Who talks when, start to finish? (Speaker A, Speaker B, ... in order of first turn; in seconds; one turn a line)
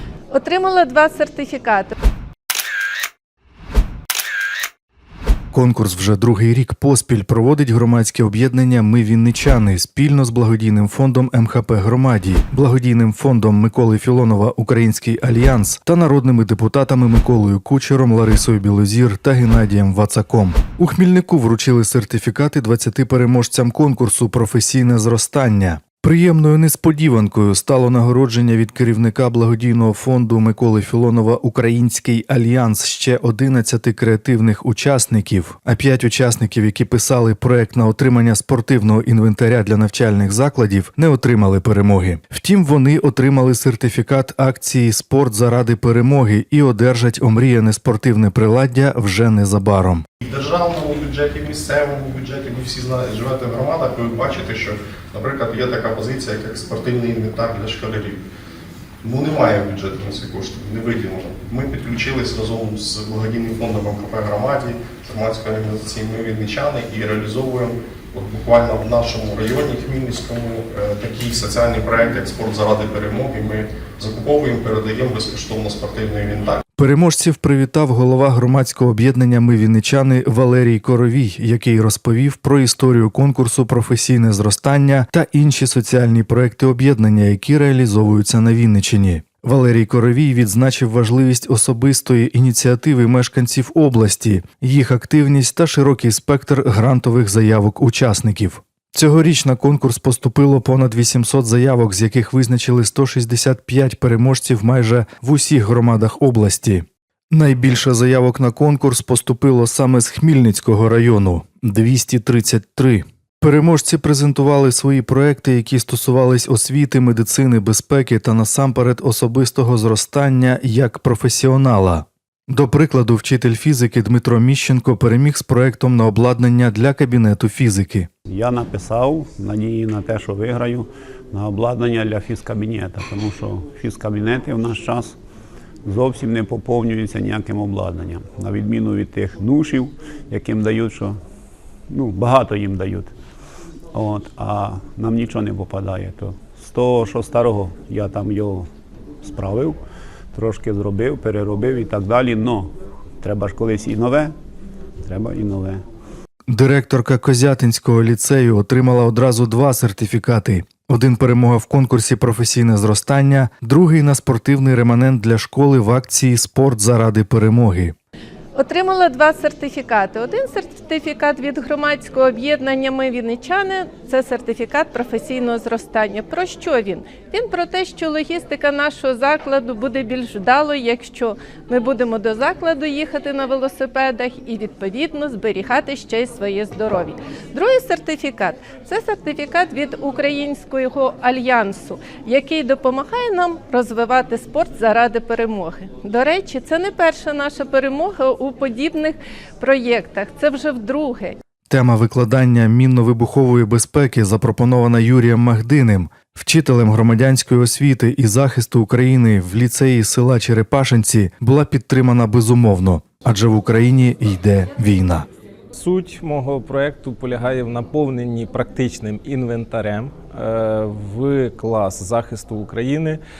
Speaker A: 0.3-1.9
Speaker B: 5.5-50.0
Speaker C: 50.2-58.2
Speaker C: 59.0-76.6
Speaker B: 76.8-128.1
Speaker D: 128.3-135.2
Speaker D: 135.8-141.2
Speaker D: 141.9-143.1
Speaker D: 143.9-148.7
Speaker D: 149.2-149.8
Speaker D: 150.3-154.3
Speaker D: 155.0-155.8
Speaker B: 156.5-167.9
Speaker A: 168.5-201.3
Speaker B: 201.7-215.3
Speaker E: 215.7-223.2